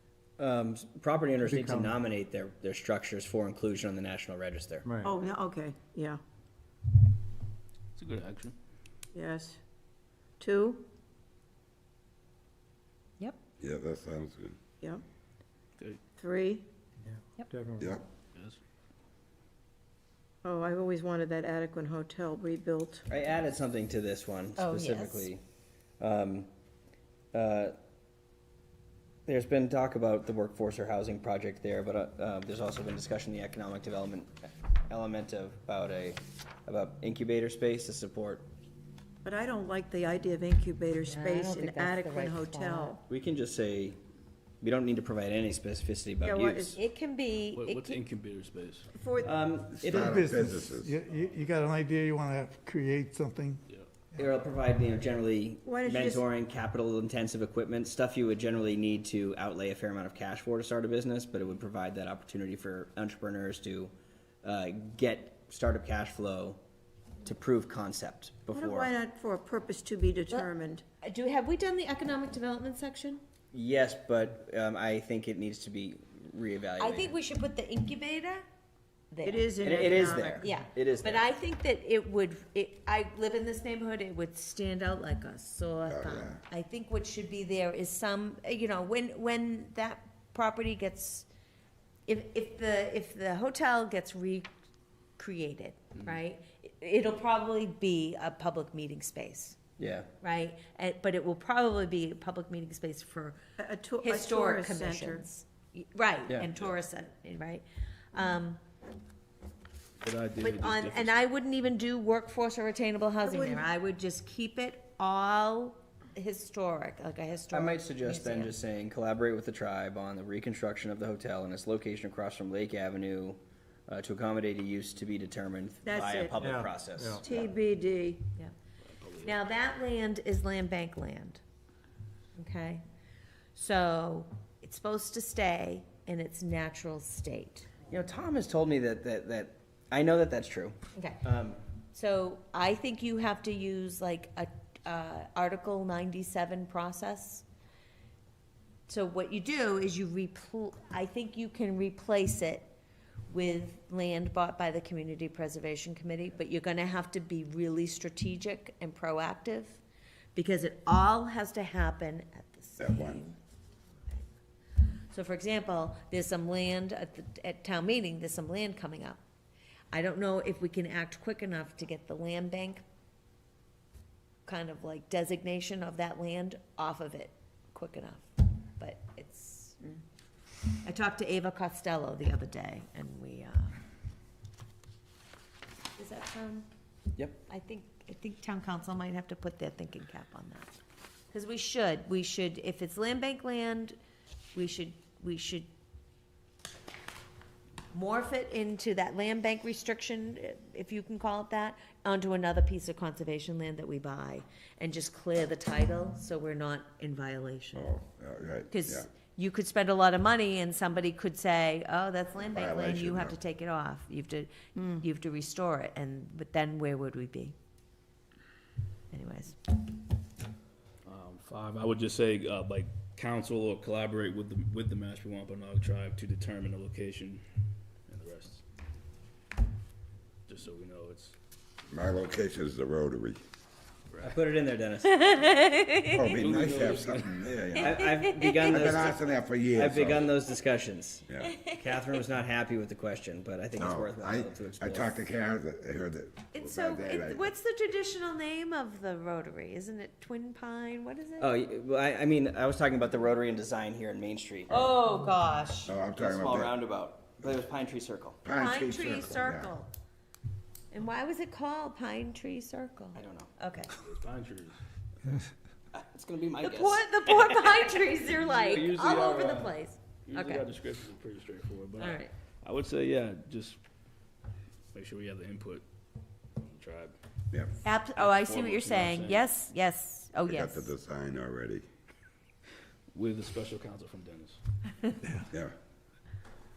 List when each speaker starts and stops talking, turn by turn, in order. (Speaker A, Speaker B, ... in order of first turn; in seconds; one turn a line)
Speaker A: 0.4-4.9
Speaker B: 1.4-1.9
Speaker B: 4.8-5.2
Speaker C: 5.0-6.2
Speaker D: 8.0-8.5
Speaker C: 9.1-9.6
Speaker C: 10.4-10.8
Speaker E: 13.6-14.6
Speaker C: 16.2-16.6
Speaker B: 17.1-17.9
Speaker C: 20.4-23.1
Speaker A: 23.1-25.4
Speaker F: 24.6-25.3
Speaker A: 26.0-26.5
Speaker A: 27.3-27.8
Speaker A: 29.2-38.5
Speaker C: 39.2-43.0
Speaker F: 41.0-43.0
Speaker A: 43.1-44.0
Speaker A: 44.6-46.8
Speaker C: 46.2-46.8
Speaker F: 46.8-48.0
Speaker D: 47.5-48.9
Speaker C: 48.9-49.3
Speaker A: 49.2-50.3
Speaker E: 49.8-51.0
Speaker B: 49.9-53.6
Speaker A: 54.1-63.9
Speaker C: 55.6-56.2
Speaker A: 64.4-66.6
Speaker A: 67.2-68.9
Speaker C: 68.5-70.8
Speaker F: 71.0-73.2
Speaker A: 73.5-77.2
Speaker F: 76.8-78.4
Speaker F: 79.1-91.3
Speaker C: 79.2-80.5
Speaker A: 79.6-81.3
Speaker E: 85.8-86.4
Speaker F: 92.1-94.5
Speaker F: 95.2-99.6
Speaker A: 99.8-100.1
Speaker F: 100.2-103.4
Speaker C: 103.6-105.2
Speaker F: 104.0-108.6
Speaker A: 106.3-106.7
Speaker D: 110.0-111.2
Speaker F: 110.4-118.5
Speaker C: 113.2-113.6
Speaker A: 117.5-127.5
Speaker C: 125.8-126.4
Speaker B: 126.4-127.2
Speaker C: 127.2-128.2
Speaker D: 128.8-129.4
Speaker F: 129.2-131.4
Speaker F: 132.3-132.8
Speaker F: 133.5-137.7
Speaker A: 137.9-141.6
Speaker F: 140.9-141.2
Speaker F: 141.9-147.4
Speaker F: 148.9-152.7
Speaker F: 153.3-159.8
Speaker F: 160.3-163.4
Speaker E: 162.8-163.2
Speaker F: 165.1-169.2
Speaker F: 169.9-172.8
Speaker F: 174.4-179.9
Speaker F: 180.7-183.8
Speaker F: 185.9-186.7
Speaker F: 187.5-190.7
Speaker F: 191.3-193.9
Speaker F: 194.5-195.7
Speaker F: 197.9-207.9
Speaker E: 207.7-209.1
Speaker F: 208.7-217.5
Speaker E: 212.4-213.4
Speaker C: 214.7-215.0
Speaker F: 219.1-219.7
Speaker D: 221.0-227.4
Speaker D: 228.1-228.6
Speaker D: 230.5-231.4
Speaker E: 231.9-233.4
Speaker D: 234.1-234.4
Speaker A: 234.2-235.4
Speaker F: 235.0-236.3
Speaker E: 236.1-240.3
Speaker D: 236.3-237.5
Speaker F: 237.8-239.0
Speaker A: 237.8-241.2
Speaker E: 241.3-241.5
Speaker F: 241.4-242.2
Speaker A: 241.8-245.3
Speaker E: 243.8-247.5
Speaker F: 246.5-251.5
Speaker A: 251.4-254.9
Speaker F: 254.7-255.9
Speaker E: 255.8-256.7
Speaker A: 256.1-258.4
Speaker E: 258.4-259.7
Speaker F: 258.5-259.9
Speaker F: 260.9-263.9
Speaker A: 263.1-263.5
Speaker D: 263.9-264.8
Speaker A: 265.9-268.0
Speaker F: 266.6-270.7
Speaker D: 268.4-273.8
Speaker F: 271.9-272.3
Speaker D: 274.9-275.8
Speaker D: 276.6-277.1
Speaker F: 277.8-280.9
Speaker D: 278.1-279.5
Speaker E: 280.4-281.8
Speaker D: 283.1-284.6
Speaker E: 285.4-285.7